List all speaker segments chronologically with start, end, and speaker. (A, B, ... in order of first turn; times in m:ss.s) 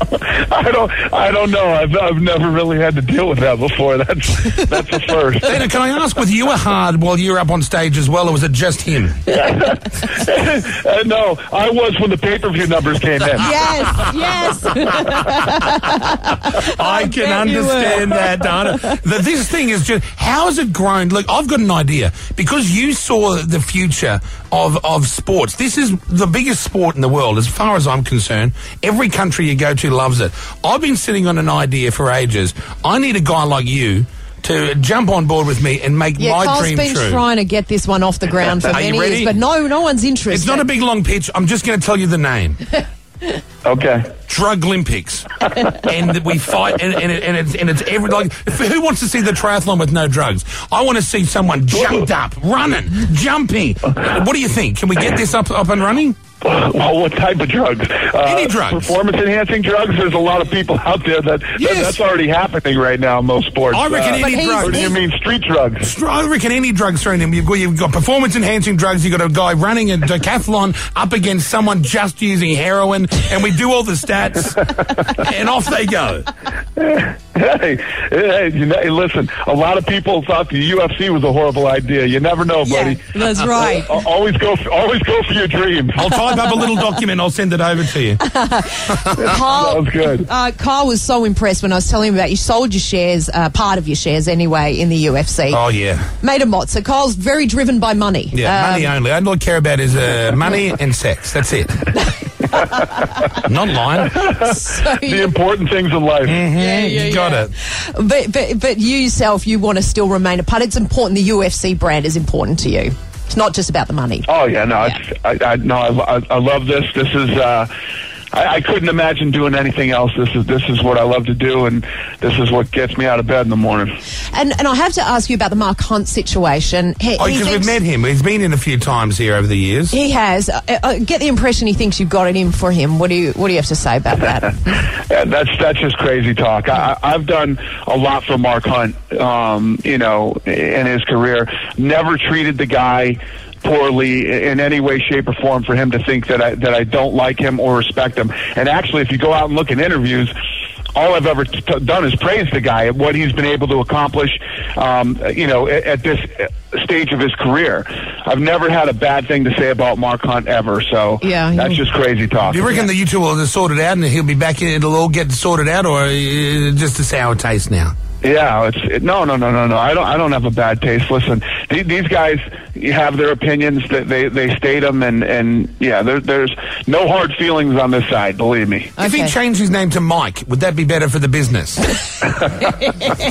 0:00.3-0:05.6 A
0:05.4-0:09.2 B
0:09.3-0:13.5 A
0:13.4-0:18.9 C
0:16.7-0:37.2 B
0:36.2-0:40.7 C
0:38.6-0:39.3 B
0:40.3-0:42.6 B
0:43.6-0:44.1 A
0:44.3-0:45.3 B
0:45.8-0:56.2 B
0:56.4-1:05.9 A
0:58.2-0:59.0 B
1:01.6-1:02.0 B
1:03.7-1:05.0 B
1:04.2-1:05.0 C
1:05.8-1:14.6 B
1:15.2-1:16.3 B
1:16.8-1:26.1 A
1:22.6-1:24.0 C
1:26.0-1:28.2 B
1:28.2-1:35.6 C
1:29.0-1:29.4 B
1:29.5-1:30.3 A
1:35.5-1:36.1 B
1:36.2-1:38.9 C
1:38.3-1:41.9 B
1:43.4-1:44.2 B
1:44.2-1:46.4 A
1:44.4-1:45.3 C
1:46.2-1:47.5 B
1:46.5-1:54.3 C
1:54.3-1:57.7 A
1:58.3-2:03.9 A
2:04.3-2:07.8 C
2:07.2-2:10.0 B
2:09.9-2:14.5 C
2:15.1-2:30.3 A
2:31.0-2:42.8 A
2:41.2-2:41.8 C
2:42.5-2:47.9 B
2:48.2-2:58.9 A
2:59.0-2:59.4 C
2:59.0-3:01.9 B